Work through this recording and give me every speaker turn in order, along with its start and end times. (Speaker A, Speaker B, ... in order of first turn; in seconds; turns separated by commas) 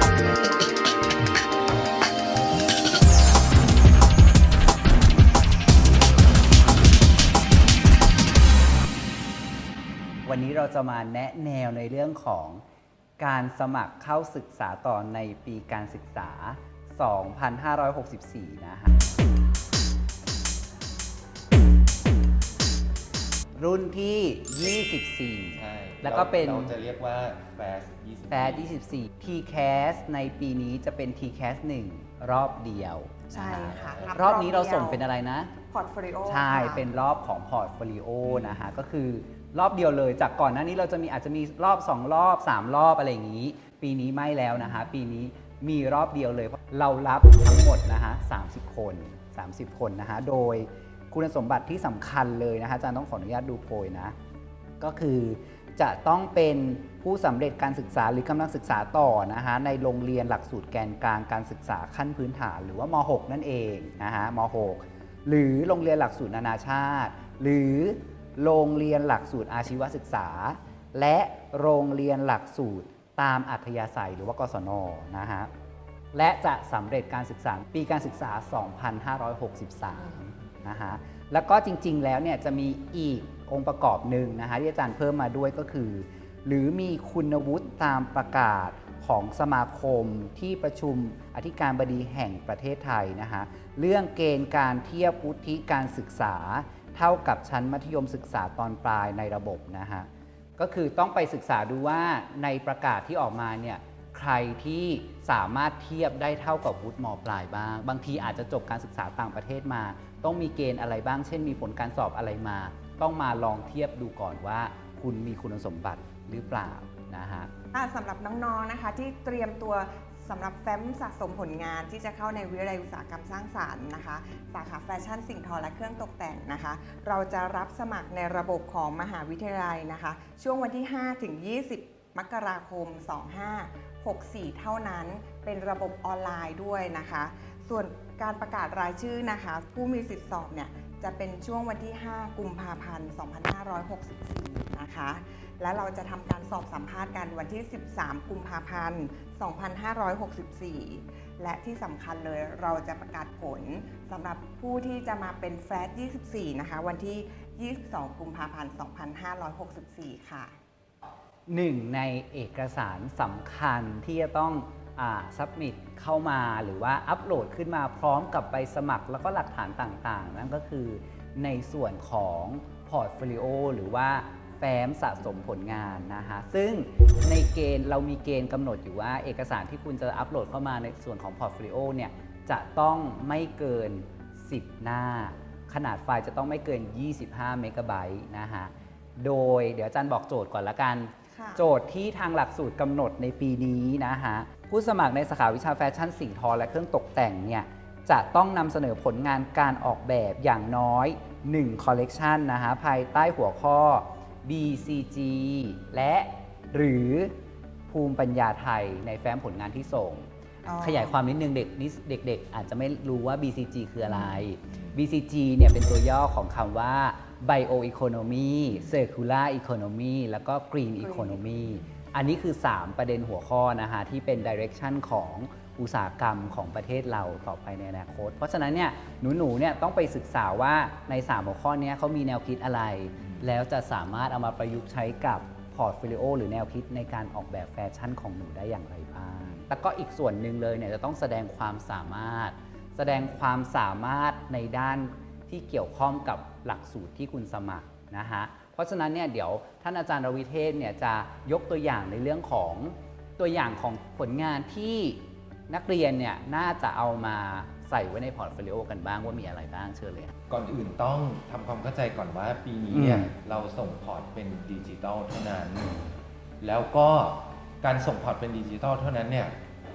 Speaker A: 10.2-12.6, Speaker A: 13.2-19.0, Speaker A: 23.6-26.7, Speaker B: 25.5-28.7, Speaker A: 28.3-35.5, Speaker C: 33.3-35.0, Speaker B: 33.5-34.1, Speaker C: 35.7-36.9, Speaker A: 36.3-54.1, Speaker B: 38.2-38.7, Speaker B: 44.5-44.9, Speaker A: 54.8-75.5, Speaker A: 76.1-117.5, Speaker C: 117.7-160.5, Speaker A: 161.5-207.3, Speaker C: 191.3-191.6, Speaker A: 207.9-210.3, Speaker C: 210.7-211.2, Speaker A: 210.8-260.3, Speaker B: 214.0-215.0, Speaker C: 221.0-221.4, Speaker B: 221.7-221.9, Speaker B: 233.2-233.5, Speaker B: 260.5-266.0, Speaker A: 262.9-263.3, Speaker B: 266.6-269.6